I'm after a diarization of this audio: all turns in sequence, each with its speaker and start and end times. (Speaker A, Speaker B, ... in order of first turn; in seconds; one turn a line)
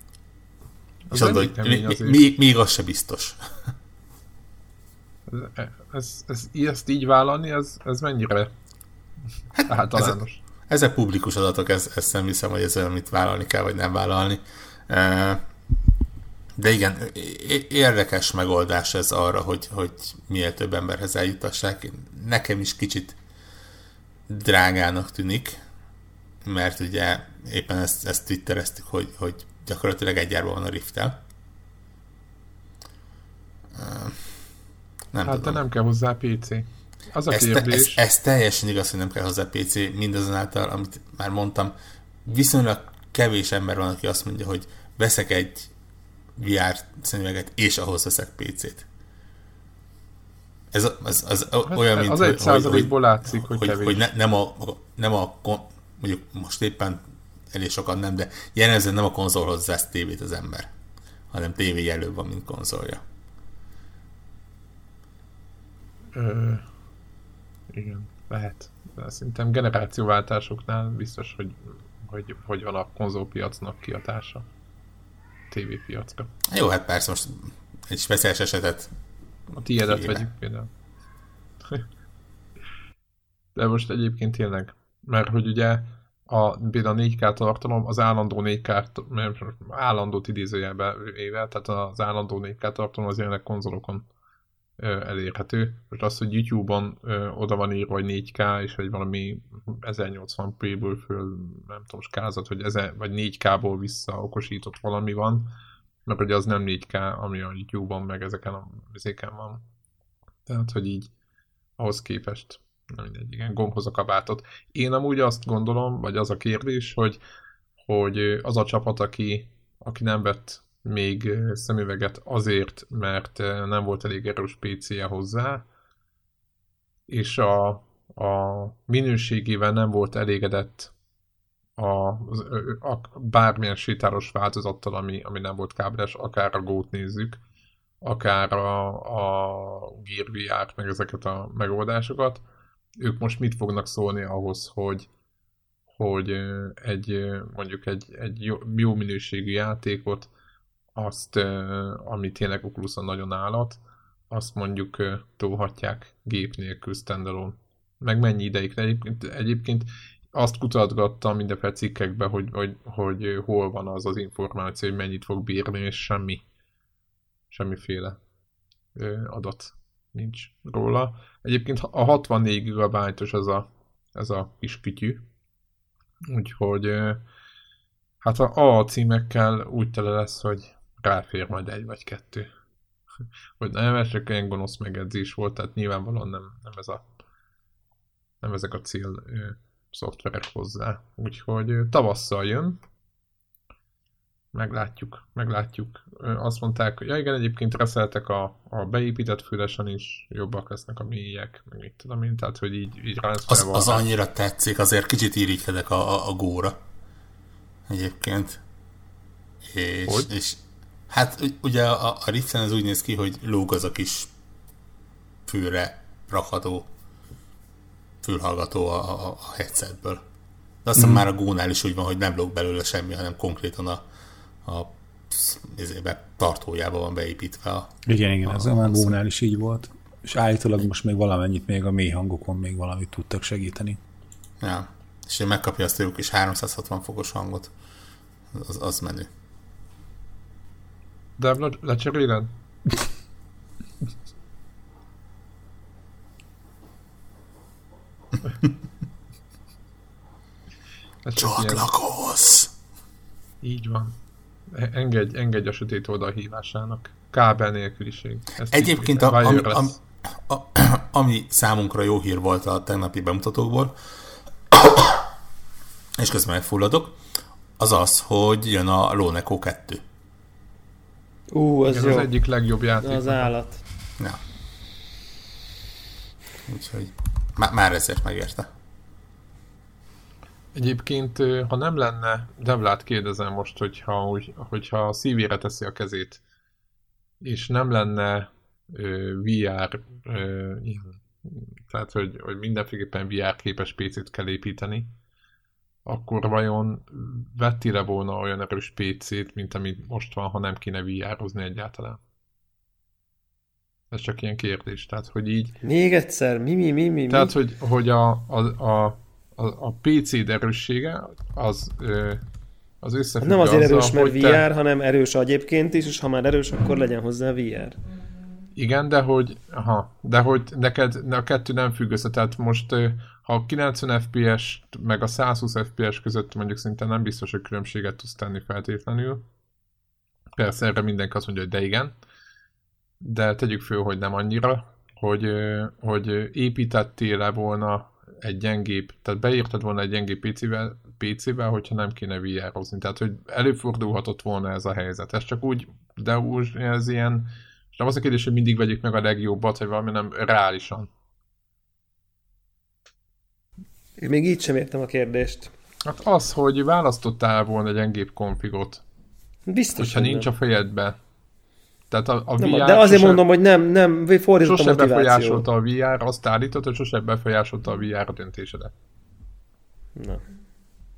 Speaker A: 1.1-2.2
Speaker B: 1.1-3.4
Speaker A: 5.3-8.5
Speaker B: 9.6-10.2
Speaker A: 9.7-10.4
Speaker B: 10.7-15.4
Speaker B: 16.6-23.1
Speaker B: 24.3-25.6
Speaker B: 26.4-31.2
Speaker B: 33.7-34.5
Speaker B: 35.1-35.6
Speaker A: 35.2-38.0
Speaker B: 37.3-45.7
Speaker B: 46.4-48.9
Speaker B: 50.7-60.7
Speaker A: 51.7-54.0
Speaker B: 61.3-63.0
Speaker A: 66.1-66.6
Speaker A: 67.7-74.5
Speaker A: 75.5-76.3
Speaker B: 76.5-78.9
Speaker A: 79.5-80.7
Speaker B: 79.8-80.2
Speaker A: 83.5-94.0
Speaker A: 94.8-105.5
Speaker A: 106.0-109.6
Speaker A: 110.5-111.1
Speaker A: 111.8-117.2
Speaker A: 117.8-125.6
Speaker A: 127.1-130.9
Speaker A: 131.8-137.4
Speaker A: 138.0-142.4
Speaker A: 143.0-145.1
Speaker A: 145.9-150.3
Speaker A: 150.9-166.4
Speaker A: 167.5-168.2
Speaker A: 168.9-175.2
Speaker A: 176.3-177.2
Speaker A: 178.2-182.5
Speaker A: 183.6-187.0
Speaker A: 188.4-192.8
Speaker A: 194.5-204.1
Speaker B: 203.5-206.8
Speaker B: 207.9-208.6
Speaker B: 209.6-214.3
Speaker B: 215.4-216.9
Speaker B: 218.2-220.2
Speaker B: 220.8-224.0
Speaker C: 220.9-221.2
Speaker B: 224.7-229.1
Speaker C: 228.1-234.0
Speaker B: 234.6-237.7
Speaker B: 238.5-239.3
Speaker A: 241.4-242.5
Speaker A: 251.2-251.8
Speaker B: 251.3-252.7
Speaker A: 253.6-254.1
Speaker A: 254.7-259.9
Speaker B: 258.7-264.0
Speaker B: 264.7-265.2
Speaker B: 266.2-267.2
Speaker B: 267.8-270.0
Speaker D: 271.5-272.3
Speaker A: 271.9-273.5
Speaker D: 273.0-273.8
Speaker B: 276.7-278.7
Speaker A: 280.7-286.4
Speaker A: 287.4-295.1
Speaker A: 296.1-302.2
Speaker A: 304.1-305.8
Speaker D: 305.8-307.5
Speaker A: 307.3-312.4
Speaker A: 313.0-314.6
Speaker D: 313.4-318.0
Speaker A: 318.8-329.4
Speaker A: 330.6-332.1
Speaker A: 333.2-351.1
Speaker D: 354.2-355.7
Speaker A: 356.0-359.0
Speaker D: 359.7-360.5
Speaker A: 360.0-361.2
Speaker A: 362.1-363.4
Speaker D: 362.6-365.6
Speaker A: 364.6-368.9
Speaker D: 370.2-370.4